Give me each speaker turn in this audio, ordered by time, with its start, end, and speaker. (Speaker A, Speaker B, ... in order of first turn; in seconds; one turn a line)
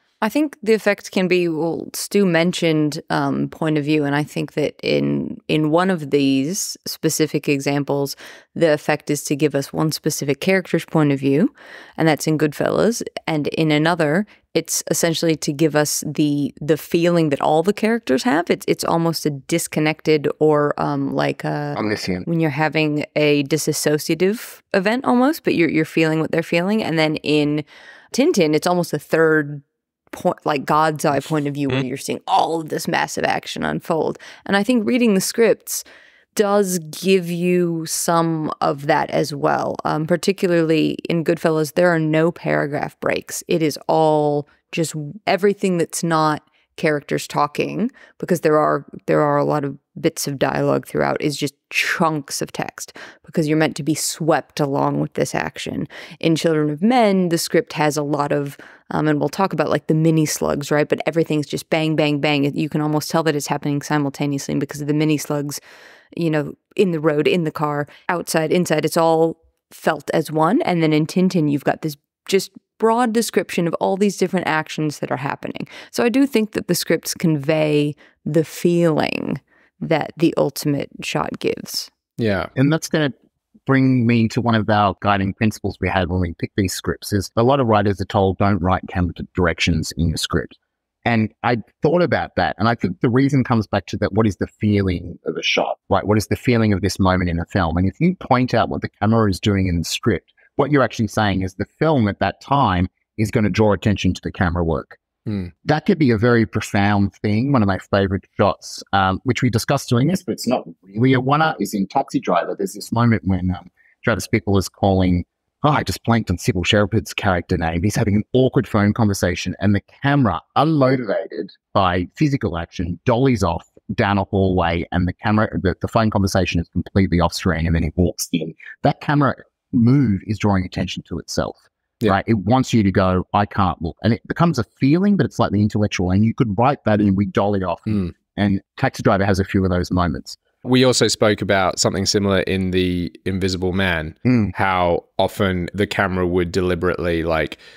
Speaker A: 0.2-65.6
Speaker B: 21.8-22.3
Speaker A: 66.1-81.9
Speaker C: 82.2-82.5
Speaker B: 82.6-83.1
Speaker B: 83.7-105.0
Speaker B: 105.7-140.4
Speaker C: 140.6-147.6
Speaker B: 144.3-144.5